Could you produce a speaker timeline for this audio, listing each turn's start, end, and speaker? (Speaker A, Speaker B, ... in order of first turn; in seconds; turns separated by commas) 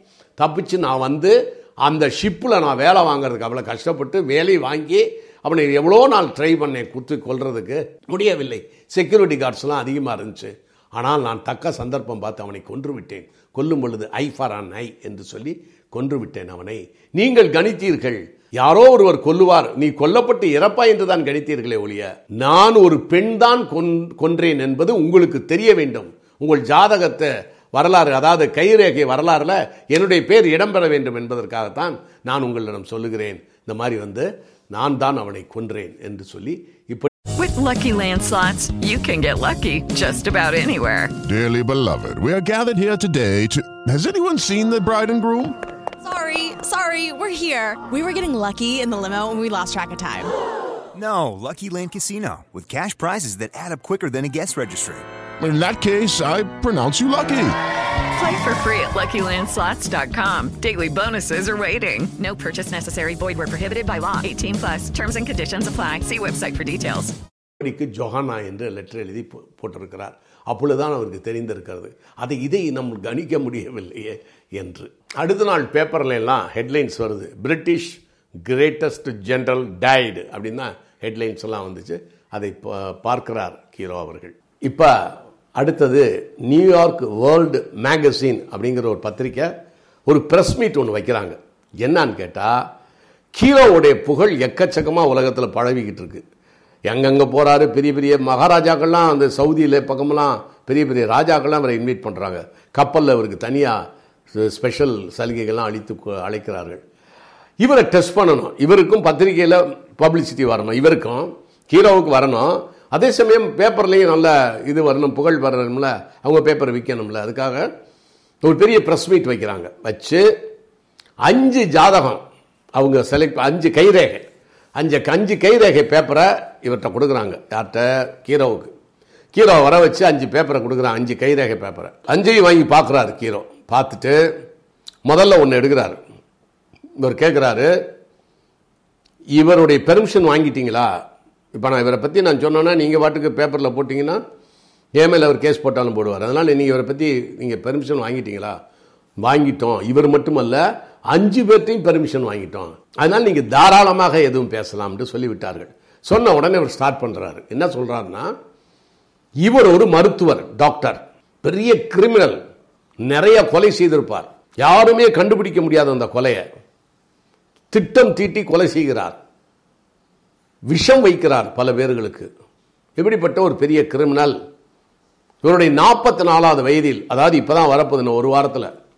Speaker A: 0.4-37.1, Speaker B: 37.4-41.1, Speaker C: 41.2-45.5, Speaker D: 46.0-50.3, Speaker E: 50.9-55.1, Speaker C: 55.4-57.5, Speaker B: 58.1-67.1, Speaker A: 67.6-84.9, Speaker A: 85.5-89.5, Speaker A: 90.1-92.6, Speaker A: 93.3-96.2, Speaker A: 96.9-103.8, Speaker A: 104.3-106.8, Speaker A: 107.6-117.7, Speaker A: 118.4-120.2, Speaker A: 121.2-122.2, Speaker A: 122.8-124.2, Speaker A: 124.8-128.7, Speaker A: 129.3-134.2, Speaker A: 135.1-136.0, Speaker A: 137.0-137.7, Speaker A: 139.3-141.0, Speaker A: 141.5-144.2, Speaker A: 144.9-148.6, Speaker A: 149.2-158.3, Speaker A: 159.4-162.4, Speaker A: 163.0-166.4, Speaker A: 167.7-169.2, Speaker A: 170.7-172.3, Speaker A: 173.0-174.3, Speaker A: 175.4-178.7